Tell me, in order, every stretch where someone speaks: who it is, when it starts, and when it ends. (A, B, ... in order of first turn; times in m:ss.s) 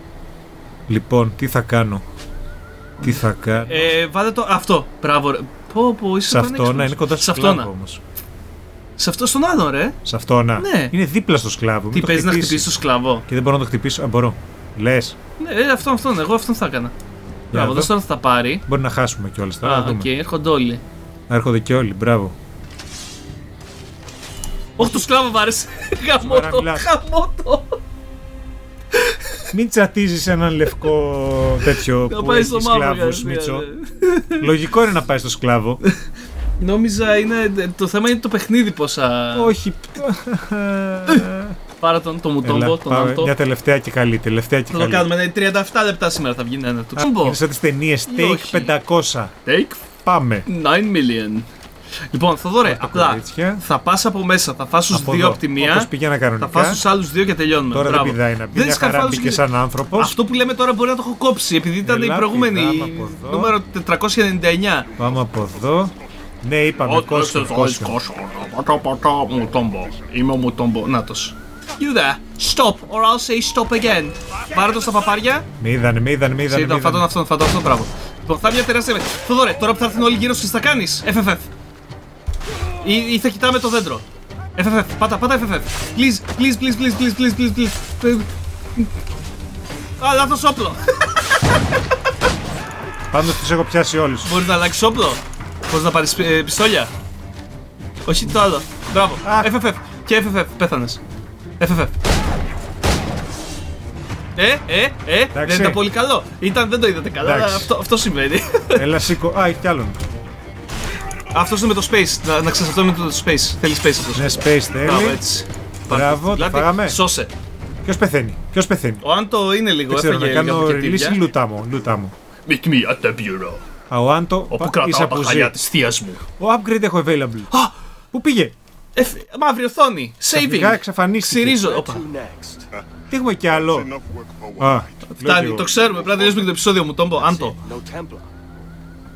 0:00.9-0:02.0 A
0:03.0-0:07.7 B
0:03.0-0:03.9 A
0:06.3-0:08.0 A
0:09.0-0:10.0 B
0:10.0-0:12.7 A
0:10.6-0:10.9 B
0:11.9-0:13.2 B
0:13.3-0:15.2 A
0:15.4-0:16.9 B
0:17.5-0:17.9 A
0:17.5-0:18.6 B
0:18.7-0:20.1 A
0:19.6-0:20.8 B
0:21.3-0:22.4 A
0:24.8-0:25.1 A
0:24.8-0:27.8 B
0:26.2-0:26.9 A
0:28.9-0:29.4 B
0:29.5-0:33.7 A
0:32.0-0:34.5 B
0:34.4-0:35.8 A
0:36.6-0:39.5 B
0:39.3-0:41.6 A
0:41.8-0:43.3 B
0:42.4-0:45.1 A
0:44.7-0:47.4 B
0:47.0-0:49.3 A
0:48.1-0:48.7 B
0:49.4-0:49.8 B
0:50.0-0:50.5 A
0:50.5-0:51.5 B
0:52.1-0:59.4 B
0:52.6-0:53.6 A
0:54.9-0:56.8 A
0:57.7-1:00.2 A
1:00.0-1:04.9 B
1:01.8-1:03.6 A
1:04.9-1:06.1 C
1:05.0-1:08.0 A
1:06.8-1:15.5 B
1:08.3-1:10.0 C
1:15.6-1:17.1 A
1:16.5-1:21.5 B
1:22.8-1:24.0 B
1:24.6-1:28.9 B
1:30.0-1:31.0 B
1:33.1-1:34.4 A
1:34.2-1:36.9 B
1:38.1-1:41.0 B
1:39.2-1:39.5 A
1:41.6-1:41.9 B
1:44.4-1:48.9 B
1:45.3-1:45.8 A
1:47.2-1:47.7 A
1:48.8-1:50.0 A
1:51.3-1:57.3 B
1:54.1-1:55.2 A
1:55.9-1:57.0 A
1:57.8-1:59.0 A
1:59.0-2:01.2 B
1:59.9-2:02.1 A
2:02.5-2:03.6 B
2:03.9-2:05.6 A
2:04.5-2:06.2 B
2:06.4-2:07.5 A
2:08.1-2:08.6 A
2:09.0-2:12.0 B
2:10.3-2:11.6 A
2:11.6-2:12.7 D
2:12.7-2:16.5 C
2:13.1-2:13.9 A
2:14.6-2:15.7 A
2:15.1-2:17.6 B
2:17.2-2:18.3 D